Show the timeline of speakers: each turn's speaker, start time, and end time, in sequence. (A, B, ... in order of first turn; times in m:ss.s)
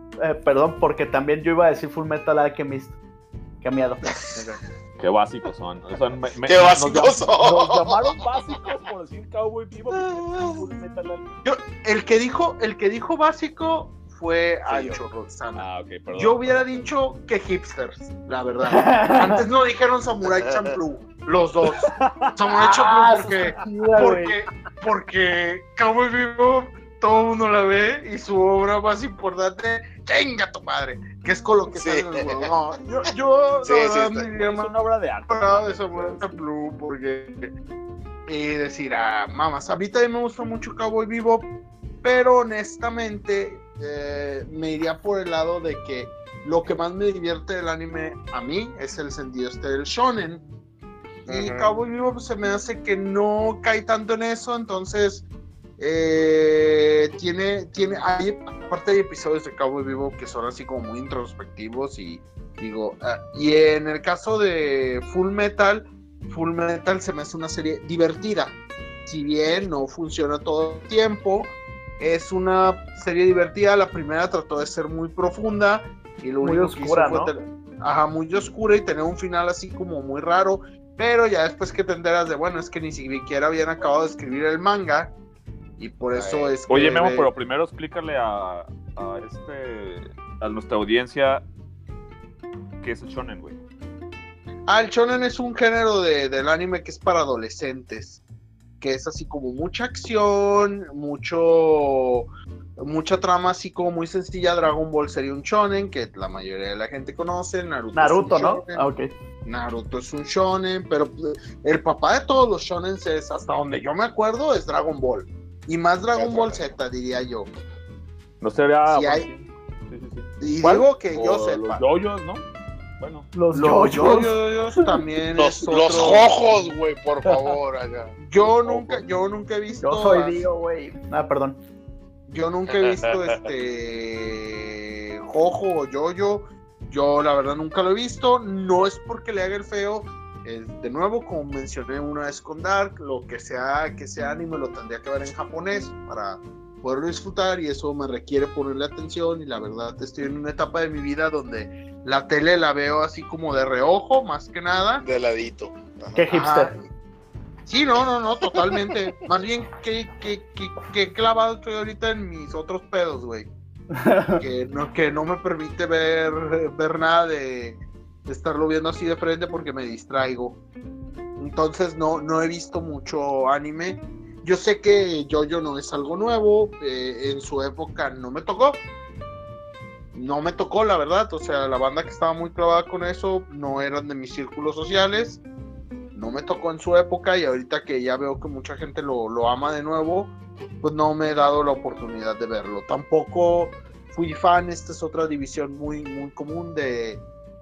0:00.2-0:02.9 A
0:03.6-0:04.0 A
0:04.1-0:04.5 B
0:05.0-0:11.4 C
0:06.4-0:08.2 B
0:09.9-0:10.6 B
0:11.4-0:34.7 D
0:14.6-0:15.0 B
0:15.5-0:16.6 C
0:18.6-0:19.4 A
0:20.4-0:20.7 B
0:21.8-0:22.3 C
0:22.5-0:24.4 A
0:31.7-0:32.6 B
0:33.6-0:34.3 B
0:34.2-0:36.4 C
0:35.3-0:37.5 D
0:38.3-0:41.5 D
0:42.0-0:50.4 D
0:51.2-0:55.3 D
0:51.3-0:51.8 B
0:55.8-1:25.1 D
1:16.4-1:17.3 A
1:25.8-1:27.3 D
1:26.1-1:26.6 B
1:26.7-1:31.4 C
1:32.8-1:33.6 C
1:34.7-1:38.2 D
1:38.8-1:48.9 D
1:47.9-1:49.1 A
1:49.4-1:57.5 D
1:56.1-1:56.7 B
1:58.4-2:02.4 C
1:58.9-1:59.3 D
2:00.4-2:01.8 D
2:03.0-2:03.3 C
2:03.3-2:04.3 A
2:03.5-2:06.3 D
2:05.3-2:08.2 B
2:08.2-2:10.4 D
2:08.5-2:09.0 C
2:09.8-2:11.6 A
2:12.3-2:35.0 D
2:12.7-2:13.4 B
2:35.0-2:36.2 B
2:36.1-2:36.7 A
2:36.3-2:36.9 D
2:37.6-2:43.5 D
2:43.9-2:44.4 A
2:44.4-2:50.6 D
2:51.4-2:58.8 D
3:00.1-3:05.4 D
3:06.1-3:17.2 D